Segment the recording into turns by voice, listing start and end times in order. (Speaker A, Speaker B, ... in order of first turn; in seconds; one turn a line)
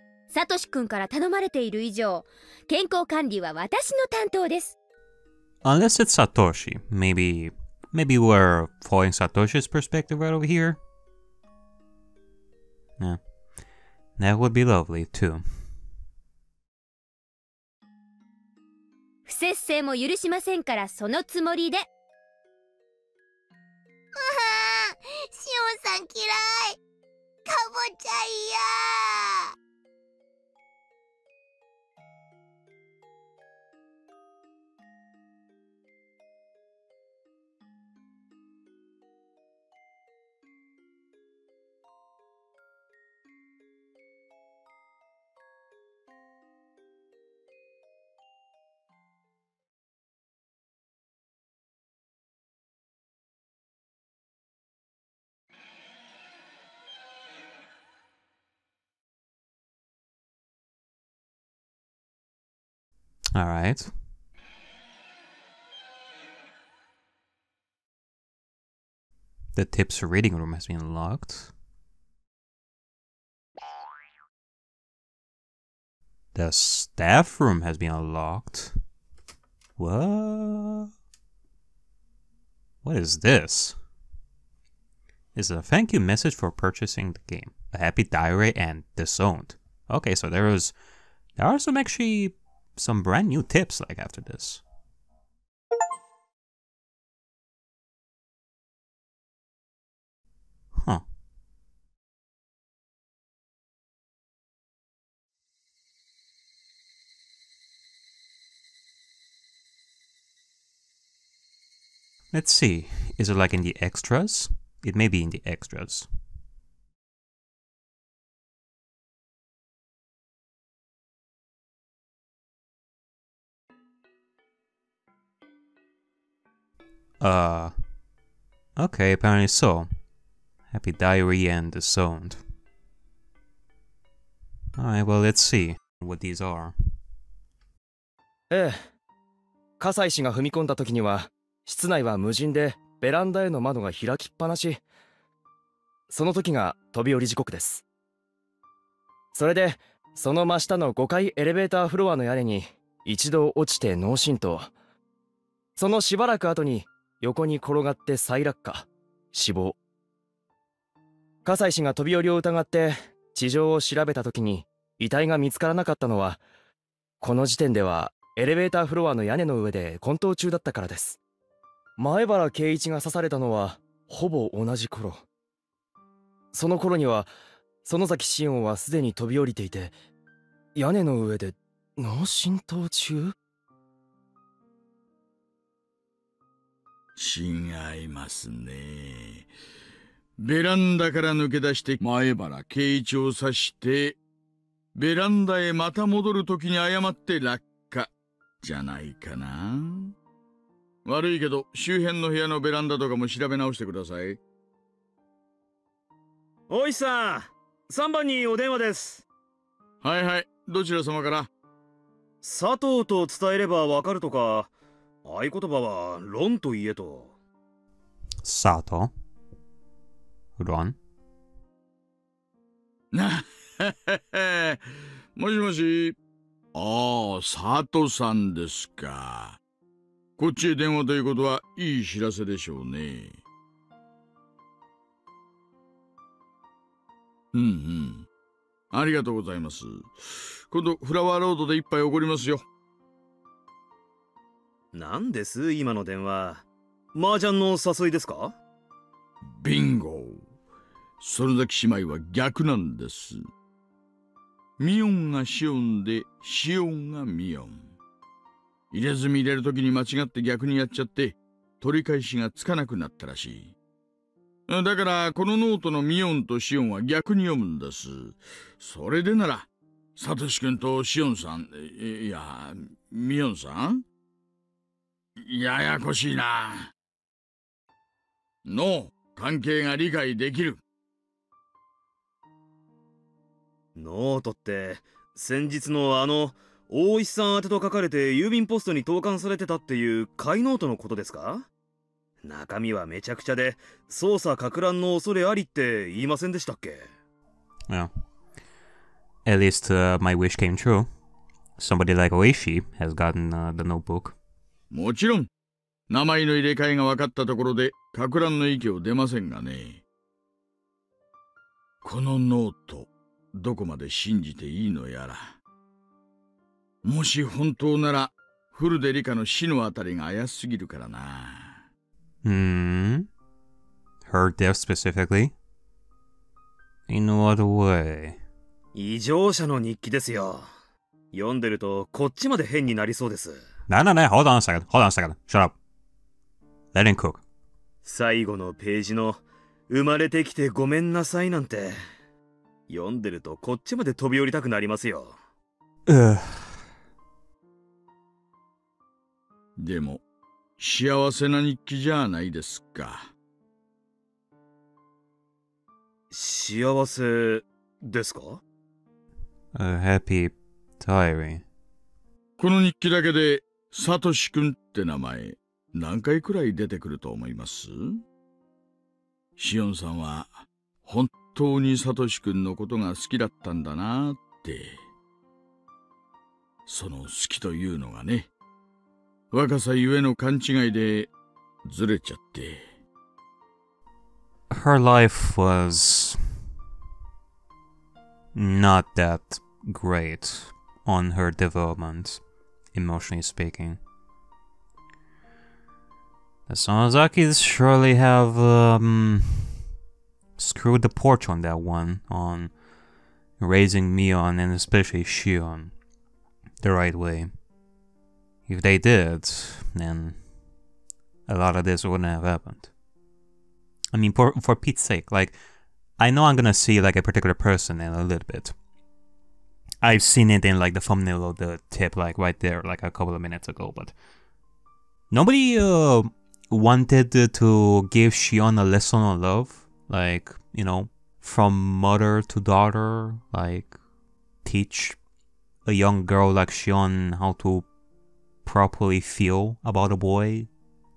Speaker A: 0.3-4.8
Speaker B: 5.6-10.8
Speaker B: 14.2-15.4
Speaker A: 19.3-21.9
Speaker C: 24.2-26.8
Speaker C: 27.4-29.5
Speaker B: 63.4-63.9
Speaker B: 69.5-71.5
Speaker B: 76.3-78.8
Speaker B: 79.8-80.9
Speaker B: 82.8-83.8
Speaker B: 85.3-90.8
Speaker B: 91.4-94.6
Speaker B: 100.8-101.0
Speaker B: 112.3-116.1
Speaker B: 127.2-127.8
Speaker B: 128.8-129.9
Speaker B: 130.7-132.4
Speaker B: 134.8-136.8
Speaker D: 138.5-138.8
Speaker D: 139.8-144.8
Speaker D: 146.1-147.8
Speaker D: 149.3-154.7
Speaker D: 155.8-159.8
Speaker D: 161.4-166.4
Speaker D: 167.2-171.2
Speaker D: 172.0-175.2
Speaker D: 176.5-177.3
Speaker D: 177.8-180.0
Speaker D: 180.8-183.3
Speaker E: 187.2-189.5
Speaker E: 190.4-194.2
Speaker E: 195.0-198.1
Speaker E: 198.6-200.1
Speaker E: 201.1-204.4
Speaker F: 206.7-209.2
Speaker E: 210.0-211.5
Speaker F: 212.4-214.7
Speaker F: 215.2-217.4
Speaker B: 218.4-219.1
Speaker B: 220.6-221.0
Speaker E: 223.1-226.2
Speaker E: 226.7-229.6
Speaker E: 230.4-233.4
Speaker E: 237.5-238.3
Speaker E: 238.9-242.6
Speaker F: 244.9-248.6
Speaker E: 249.6-250.4
Speaker E: 251.2-253.4
Speaker E: 254.8-257.9
Speaker E: 258.9-263.7
Speaker E: 264.7-274.0
Speaker E: 275.4-276.9
Speaker E: 278.6-280.8
Speaker F: 284.0-291.7
Speaker F: 292.4-297.1
Speaker B: 299.4-301.1
Speaker B: 301.8-304.4
Speaker E: 304.9-305.5
Speaker E: 306.1-310.0
Speaker E: 312.0-315.6
Speaker E: 317.0-321.8
Speaker B: 322.4-323.3
Speaker B: 324.2-325.5
Speaker B: 327.1-328.4
Speaker F: 328.9-330.7
Speaker F: 331.3-333.6
Speaker B: 333.9-335.8
Speaker B: 336.9-337.4
Speaker F: 338.1-342.0
Speaker F: 342.9-345.4
Speaker B: 346.1-346.8
Speaker E: 349.8-350.2
Speaker E: 350.8-353.3
Speaker F: 356.3-358.6
Speaker B: 359.8-361.6
Speaker E: 362.6-368.2
Speaker E: 369.6-375.0
Speaker E: 376.9-378.5
Speaker E: 379.5-381.3
Speaker E: 381.9-382.8
Speaker B: 384.7-386.6
Speaker B: 388.5-392.4
Speaker B: 392.9-394.0
Speaker B: 396.7-399.8
Speaker B: 400.6-402.7
Speaker B: 403.6-405.9
Speaker B: 406.8-407.5
Speaker B: 408.7-410.4
Speaker B: 411.5-412.9
Speaker B: 414.1-415.6
Speaker B: 416.2-418.8
Speaker B: 420.0-424.1
Speaker B: 425.3-433.9
Speaker B: 434.6-435.2
Speaker B: 435.9-437.9
Speaker B: 438.6-440.7